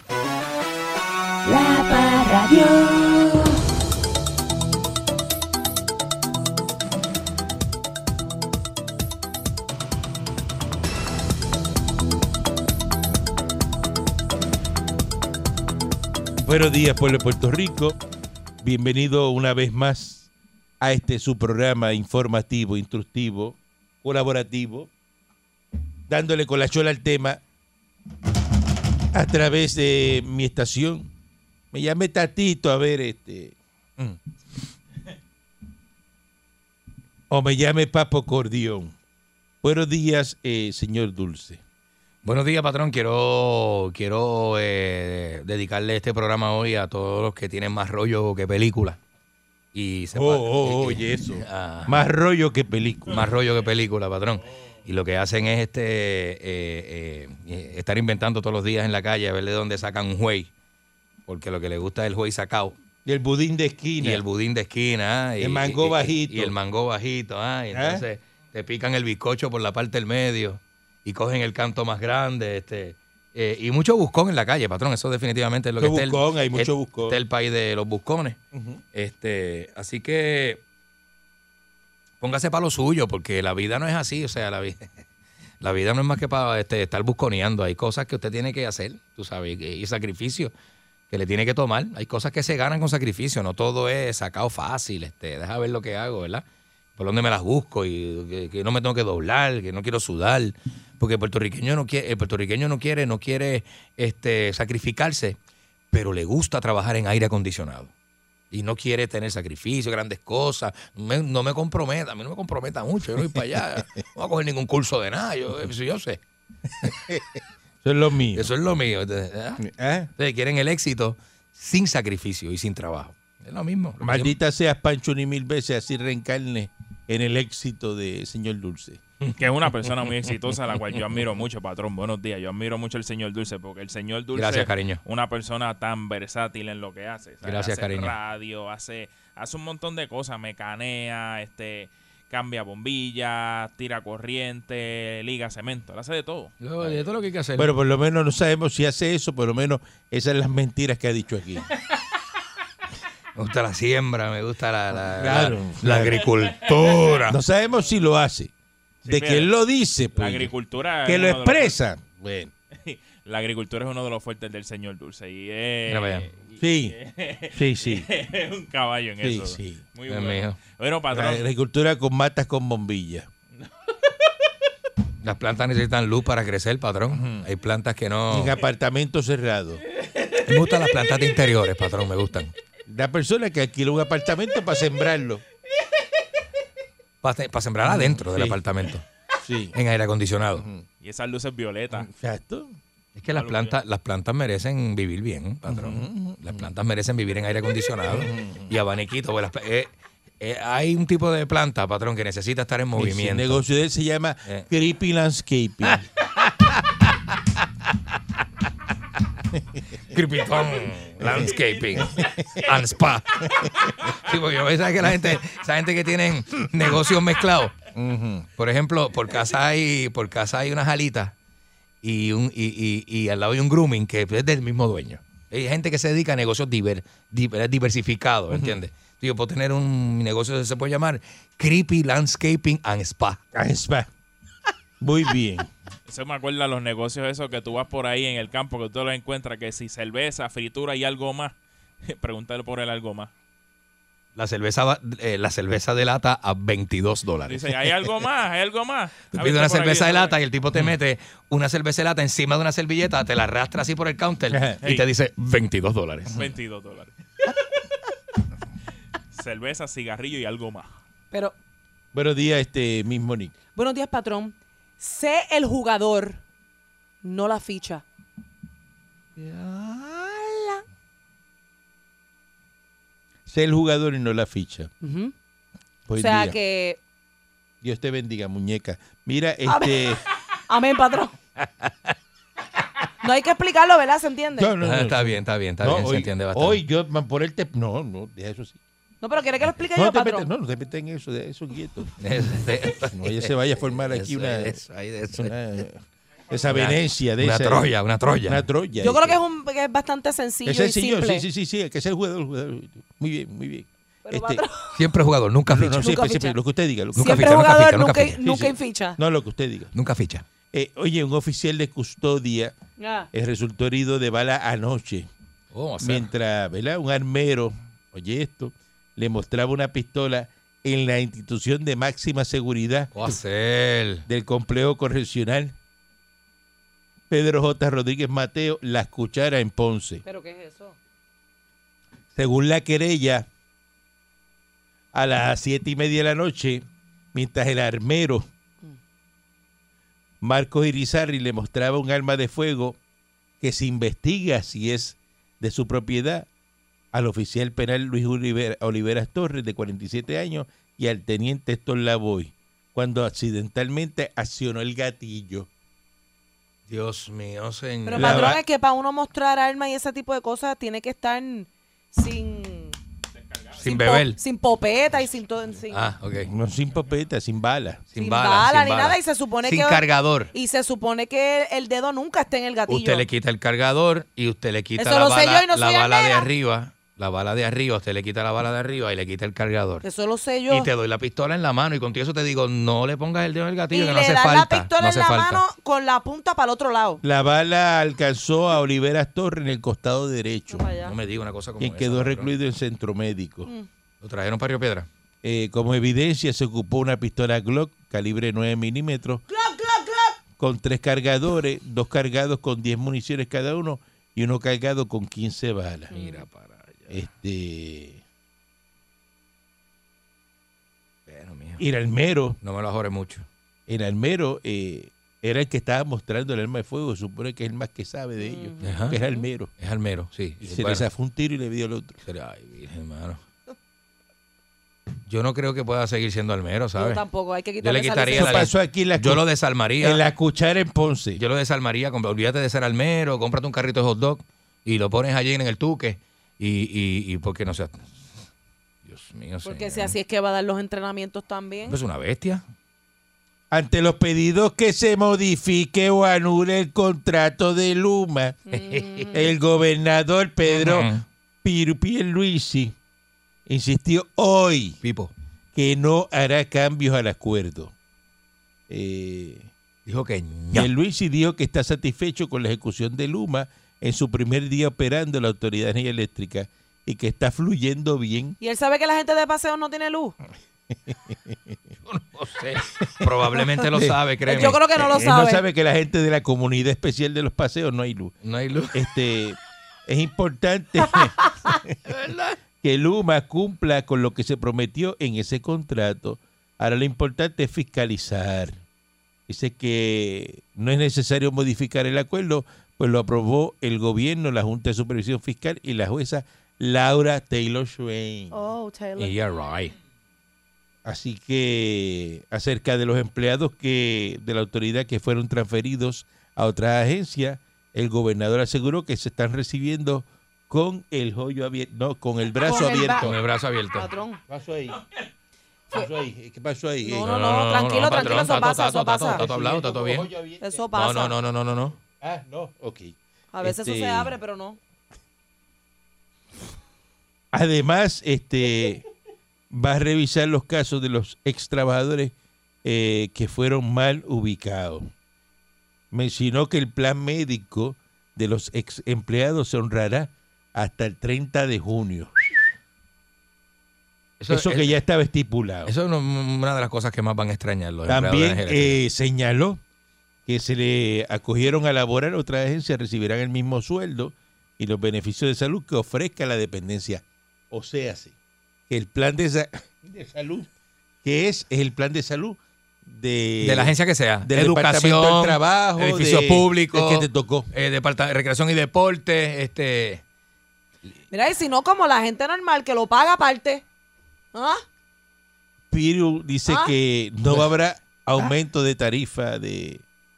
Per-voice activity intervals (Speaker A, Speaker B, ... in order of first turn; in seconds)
Speaker A: 1.4-3.6, 263.8-266.4, 267.2-268.0, 275.0-275.3, 276.2-277.0, 279.7-280.1, 280.7-281.3, 283.2-284.7, 289.2-290.5, 299.0-301.5, 304.3-304.9, 306.0-306.6, 307.1-309.2, 313.0-313.3, 330.2-331.0, 358.1-363.0, 363.8-366.1, 368.2-373.2, 375.0-376.5, 380.0-380.9, 383.9-387.2, 390.7-391.1, 399.5-400.4, 406.1-406.4, 418.4-419.4, 427.0-428.6, 439.6-442.0, 448.7-449.4, 468.6-470.4, 474.5-475.6, 498.5-499.4, 512.6-513.3, 513.9-514.4, 517.0-519.4, 520.6-521.4, 523.5-524.8, 571.3-573.8, 574.5-574.8, 576.7-576.9
Speaker B: 16.4-18.0, 18.6-20.3, 20.8-24.9, 26.1-27.4, 29.1-31.1, 31.7-34.2, 37.3-39.0, 39.6-41.6, 50.1-53.3, 63.0-64.2, 65.4-66.5, 67.7-68.0, 75.8-77.2, 78.5-78.8, 116.8-117.2, 117.8-118.5, 119.6-120.1, 124.0-129.0, 147.6-151.7, 154.9-156.3, 157.2-158.5, 159.1-160.5, 161.0-162.5, 166.6-167.0, 167.5-168.1, 169.2-169.8, 171.1-173.3, 177.1-177.5, 178.3-179.8, 182.9-185.4, 187.8-188.6, 189.4-189.8, 190.6-190.8, 191.9-192.7, 195.7-196.7, 198.1-198.7, 202.9-206.0, 211.2-212.5, 215.1-215.3, 217.9-218.5, 228.5-228.8, 233.5-234.1, 235.0-235.7, 254.5-255.0, 262.1-263.5, 269.4-270.4, 273.5-274.9, 276.1-276.6, 277.8-280.2, 284.6-288.8, 289.9-292.2, 293.1-294.8, 295.4-299.4, 300.6-304.6, 305.7-307.6, 308.4-309.9, 310.7-312.8, 313.3-315.3, 316.0-323.3, 324.3-325.8, 327.3-330.2, 332.4-333.5, 335.1-338.4, 340.4-343.0, 343.6-346.5, 347.1-355.7, 358.1-358.6, 366.4-368.1, 387.2-390.9, 391.8-393.7, 395.4-399.4, 400.6-406.1, 407.1-408.2, 411.8-412.6, 413.9-419.7, 420.6-422.2, 428.4-429.4, 430.0-431.4, 443.7-448.6, 449.3-451.1, 451.6-452.9, 453.7-455.0, 455.7-457.9, 458.9-459.7, 460.7-468.6, 471.1-471.7, 473.1-474.2, 475.0-478.3, 478.9-482.0, 482.8-488.8, 489.5-498.6, 501.1-513.4, 514.5-515.0, 515.9-517.3, 518.0-518.6, 519.3-520.9, 522.0-524.3, 527.5-529.0, 529.7-535.1, 536.1-542.5, 544.5-545.9, 548.1-549.8, 550.5-558.3, 558.9-560.7, 561.2-567.7, 575.9-580.0
Speaker C: 42.2-49.0, 49.7-52.1, 53.1-60.5, 61.3-62.8, 64.0-78.4, 78.9-80.6, 82.2-85.0, 85.6-90.5, 91.1-96.4, 97.0-105.4, 105.9-107.9, 108.5-116.2, 118.3-119.6, 120.2-124.3, 134.3-135.0, 137.4-138.2, 146.6-147.7, 153.3-157.4, 165.9-166.3, 170.1-170.6, 175.2-178.5, 180.4-182.5, 187.2-189.1, 189.7-190.7, 193.2-203.6, 205.9-207.3, 210.1-217.8, 218.6-221.3, 222.0-233.4, 244.4-248.1, 249.3-256.5, 281.6-281.9, 284.8-286.8, 292.2-295.6, 296.7-298.7, 304.9-306.1, 307.2-308.6, 309.9-310.4, 315.7-316.3, 323.1-324.3, 356.9-358.6, 363.8-364.4, 365.9-366.5, 368.1-370.5, 372.9-380.1, 380.7-385.6, 391.0-392.5, 394.2-395.1, 406.1-407.3, 411.3-411.8, 412.6-413.5, 418.8-419.2, 419.8-421.1, 422.2-423.4, 425.3-427.2, 427.8-430.2, 431.4-438.3, 439.1-440.1, 441.9-442.6, 448.7-449.3, 450.7-451.2, 455.0-455.3, 460.1-460.9, 472.1-474.8, 478.4-479.0, 482.1-482.6, 499.2-499.9, 513.2-514.1, 517.2-520.3, 520.9-522.0, 544.4-545.0, 545.9-549.0, 563.6-570.2
Speaker D: 129.4-146.5, 156.8-157.2, 159.1-159.5, 160.2-161.8, 162.8-171.4, 191.0-192.1, 193.3-193.8, 236.1-241.6, 242.1-243.3, 247.5-250.4, 256.4-257.1, 259.3-260.9